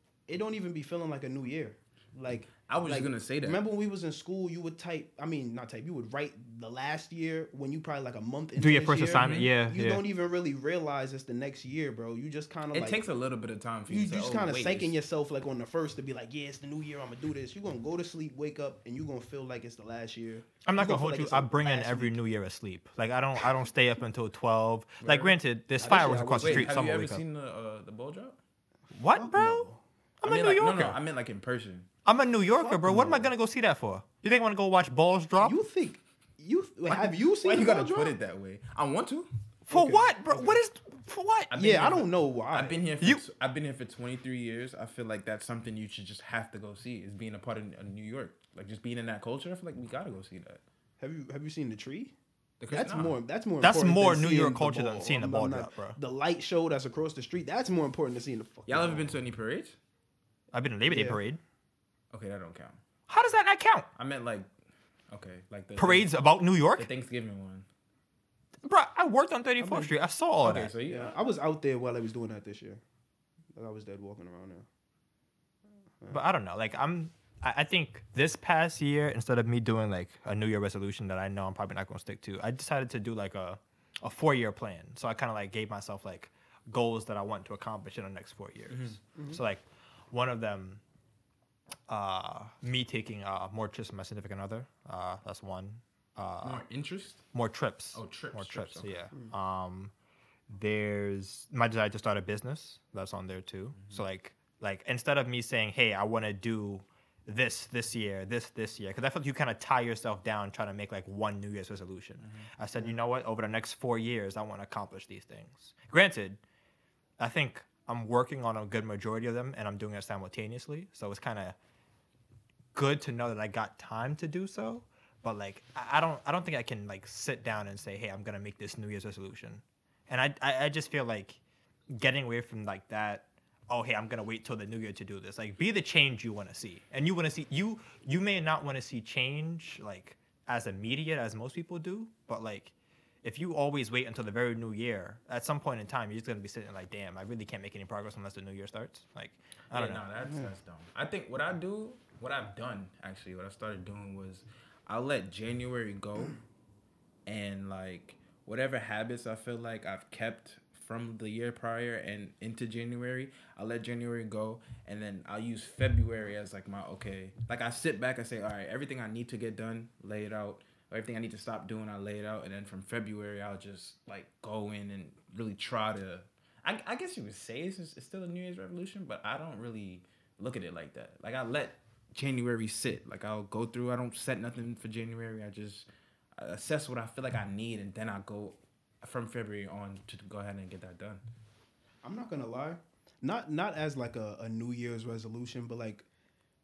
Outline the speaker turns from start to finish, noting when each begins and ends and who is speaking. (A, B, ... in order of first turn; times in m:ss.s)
0:00.3-0:13.0 A
0:02.7-0:03.6 B
0:08.6-0:10.0 C
0:09.2-0:09.5 B
0:12.7-0:14.9 B
0:13.9-0:22.2 A
0:20.6-0:27.2 C
0:25.0-0:25.4 B
0:25.8-0:26.8 A
0:26.4-0:28.4 B
0:28.9-0:29.7 C
0:29.1-0:29.8 A
0:30.2-0:31.0 C
0:30.2-0:31.9 B
0:32.1-0:35.6 C
0:32.6-0:33.1 A
0:32.8-0:33.2 B
0:35.4-0:38.2 A
0:36.9-0:39.3 B
0:39.7-0:41.5 C
0:39.7-0:40.6 A
0:41.5-0:50.6 B
0:41.6-0:42.8 A
0:51.0-0:52.1 A
0:52.6-0:53.2 B
0:52.7-0:59.2 A
0:53.6-0:56.0 C
0:58.7-0:59.8 B
1:00.5-1:01.4 C
1:00.9-1:01.2 A
1:02.1-1:02.8 B
1:03.1-1:03.9 C
1:04.0-1:04.5 B
1:05.1-1:06.2 B
1:05.8-1:06.9 C
1:06.7-1:07.6 B
1:08.6-1:10.7 C
1:09.6-1:09.9 A
1:10.4-1:11.2 B
1:10.9-1:12.8 A
1:13.6-1:14.6 A
1:16.1-1:30.8 C
1:28.7-1:29.0 B
1:31.9-1:36.6 C
1:36.4-1:37.2 B
1:37.3-1:39.9 C
1:37.9-1:38.9 B
1:40.5-1:56.4 C
1:43.8-1:44.0 B
1:52.2-1:52.5 B
1:57.2-2:01.6 C
2:02.7-2:30.0 C
2:29.7-2:36.4 B
2:37.2-3:11.2 B
3:12.0-3:16.1 A